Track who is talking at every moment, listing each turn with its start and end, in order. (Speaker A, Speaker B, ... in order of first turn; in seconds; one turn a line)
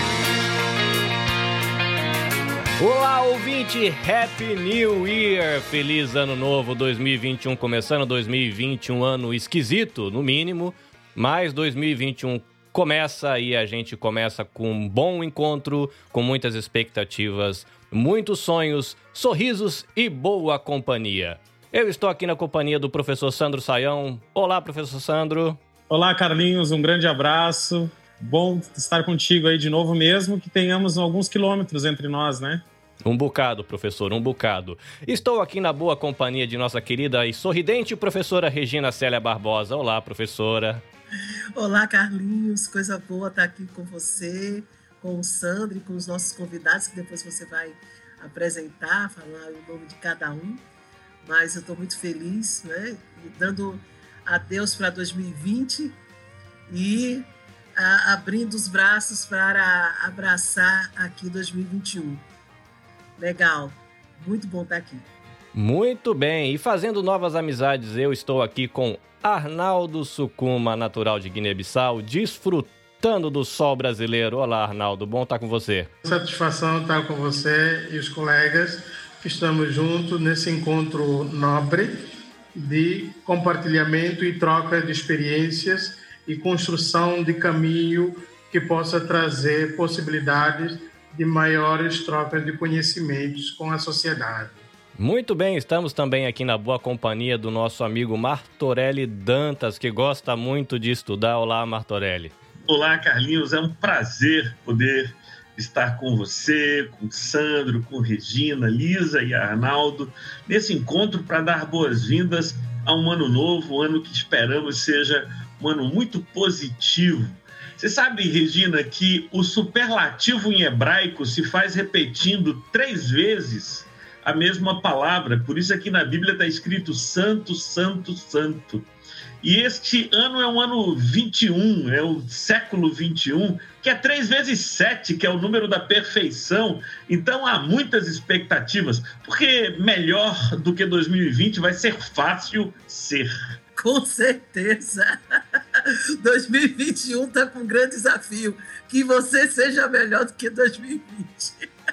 Speaker A: 2.8-25.6
Speaker B: 25.9-32.6
Speaker A: 33.0-40.8
Speaker C: 41.5-50.6
Speaker C: 51.2-56.0
Speaker C: 56.7-62.2
Speaker C: 63.2-65.0
Speaker A: 65.5-75.9
Speaker D: 76.0-94.7
Speaker A: 95.0-102.3
Speaker E: 102.7-128.9
Speaker E: 129.4-143.3
Speaker C: 143.8-145.2
Speaker C: 145.8-151.5